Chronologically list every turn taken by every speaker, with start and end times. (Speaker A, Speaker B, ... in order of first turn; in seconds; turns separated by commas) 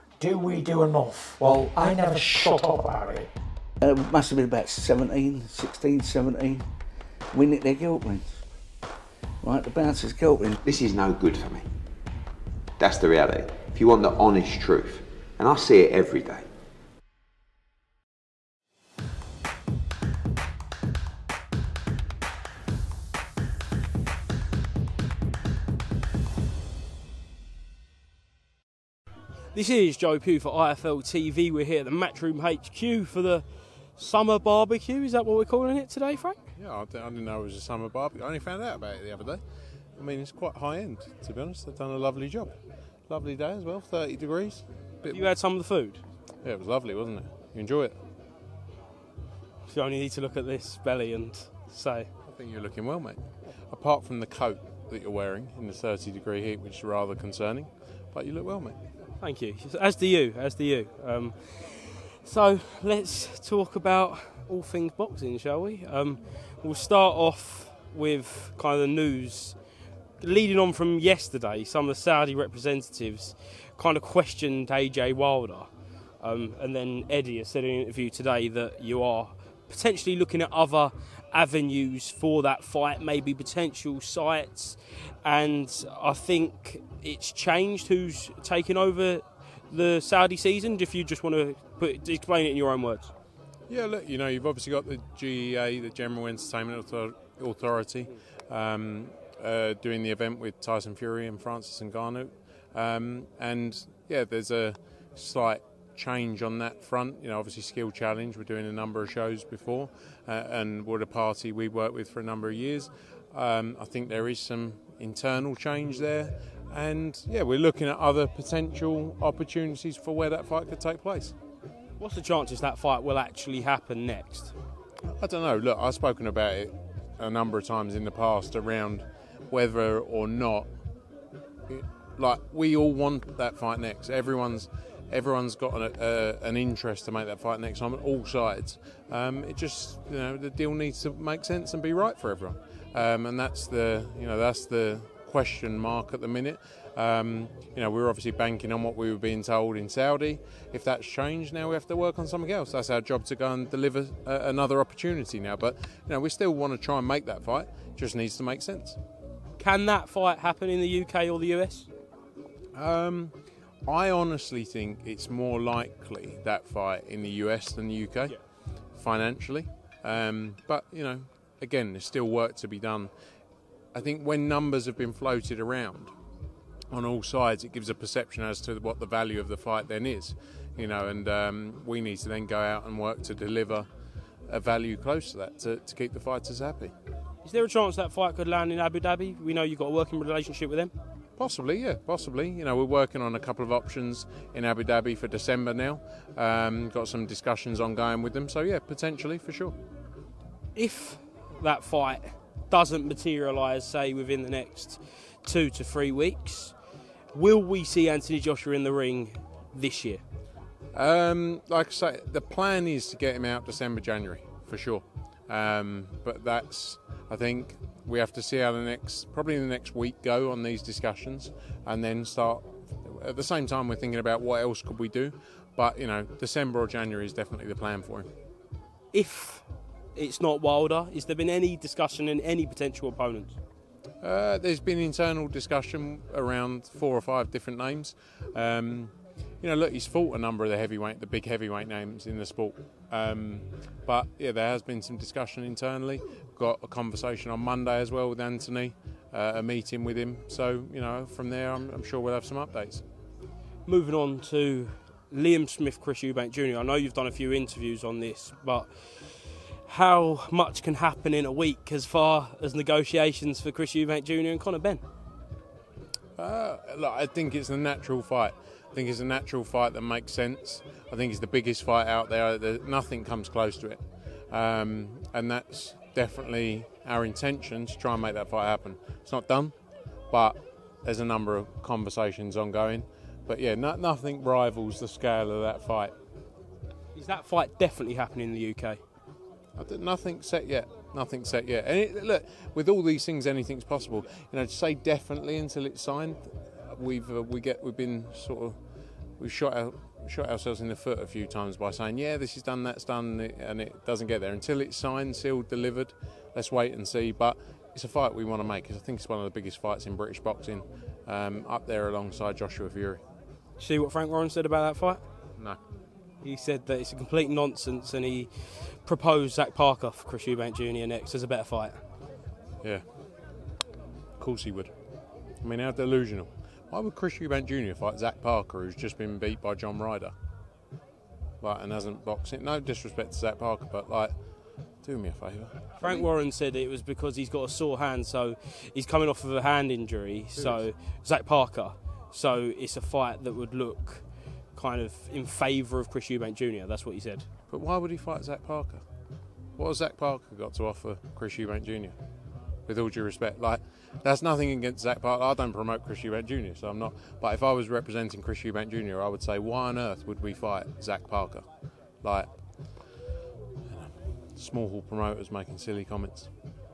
Speaker A: 0.2-3.3, Speaker B: 3.8-6.6, Speaker B: 7.3-8.4, Speaker B: 9.4-10.6, Speaker C: 10.6-11.6, Speaker C: 12.8-16.5, Speaker D: 29.5-36.4, Speaker E: 36.5-39.4, Speaker E: 40.0-42.5, Speaker E: 43.1-45.2, Speaker D: 45.0-46.0, Speaker E: 46.4-48.0, Speaker D: 49.6-52.1, Speaker E: 52.2-53.2, Speaker E: 53.7-58.8, Speaker D: 59.2-69.5, Speaker D: 70.2-75.7, Speaker D: 76.2-93.1, Speaker E: 93.7-121.3, Speaker D: 122.0-124.5, Speaker E: 125.0-130.7, Speaker E: 131.7-159.0, Speaker D: 159.6-161.9, Speaker E: 162.7-168.3, Speaker E: 168.9-173.1, Speaker E: 173.9-176.1, Speaker E: 176.9-183.9, Speaker E: 184.5-186.9, Speaker D: 187.4-190.9, Speaker E: 191.4-199.7, Speaker D: 200.7-206.7, Speaker D: 207.3-210.2, Speaker E: 210.9-228.3, Speaker D: 229.1-229.6, Speaker D: 230.2-233.6, Speaker E: 234.2-253.0, Speaker D: 253.8-265.0, Speaker E: 266.4-279.7, Speaker E: 280.3-286.1, Speaker D: 287.1-289.0, Speaker E: 289.8-298.8, Speaker E: 299.4-313.2, Speaker D: 313.8-315.2, Speaker D: 316.4-322.0, Speaker E: 324.4-324.9, Speaker E: 325.6-330.3, Speaker E: 331.6-334.3, Speaker E: 335.0-336.2, Speaker D: 336.0-347.4, Speaker E: 347.7-349.0, Speaker E: 349.8-352.1, Speaker E: 352.9-361.6, Speaker E: 362.2-362.5, Speaker E: 363.9-366.5